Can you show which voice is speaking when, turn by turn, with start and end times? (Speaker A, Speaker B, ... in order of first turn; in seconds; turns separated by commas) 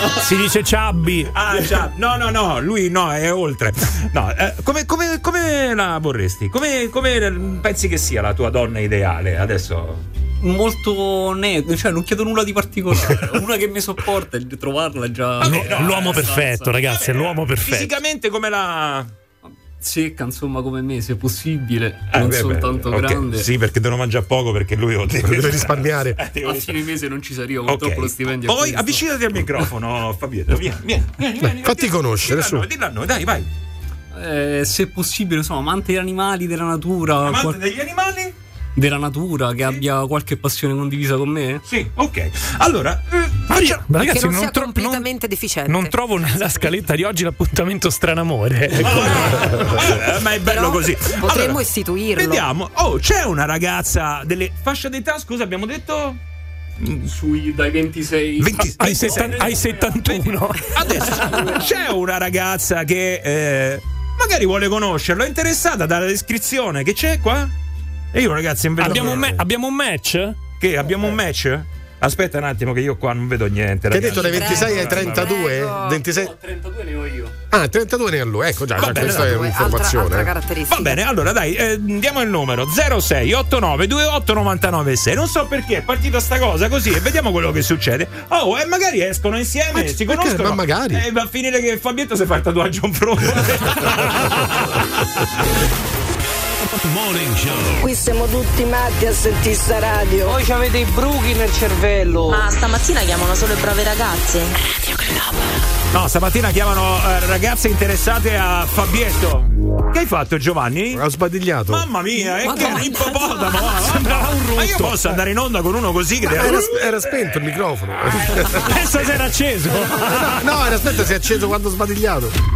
Speaker A: 0.1-1.3, Speaker B: 1.3-10.0, Speaker C: 10.4-16.8, Speaker B: 15.4-16.3, Speaker A: 15.4-18.0, Speaker B: 16.9-19.1, Speaker C: 19.4-23.5, Speaker B: 22.1-26.8, Speaker D: 25.2-26.2, Speaker C: 26.4-29.0, Speaker B: 27.6-33.5, Speaker D: 31.4-32.6, Speaker C: 34.1-37.6, Speaker B: 37.2-38.3, Speaker C: 38.8-41.6, Speaker B: 41.7-43.8, Speaker A: 43.5-45.1, Speaker E: 44.0-46.0, Speaker A: 45.7-49.4, Speaker B: 48.8-51.6, Speaker E: 48.8-52.4, Speaker B: 52.1-56.2, Speaker B: 56.8-57.1, Speaker C: 57.0-60.2, Speaker B: 58.4-67.5, Speaker A: 58.7-60.7, Speaker C: 60.9-61.8, Speaker B: 68.1-69.3, Speaker A: 68.8-70.3, Speaker D: 68.8-69.4, Speaker B: 70.6-75.3, Speaker D: 73.9-76.3, Speaker E: 74.1-76.0, Speaker C: 76.0-77.3, Speaker D: 77.5-80.3, Speaker B: 78.8-79.4, Speaker E: 78.8-81.0, Speaker B: 80.7-94.8, Speaker D: 89.7-91.0, Speaker F: 100.3-102.4, Speaker G: 102.3-104.6, Speaker B: 105.9-111.0, Speaker D: 110.9-111.9, Speaker B: 111.7-116.7, Speaker E: 112.4-113.6, Speaker A: 112.5-112.8, Speaker A: 113.8-115.2, Speaker D: 116.3-118.9, Speaker A: 118.6-120.5, Speaker D: 119.7-122.3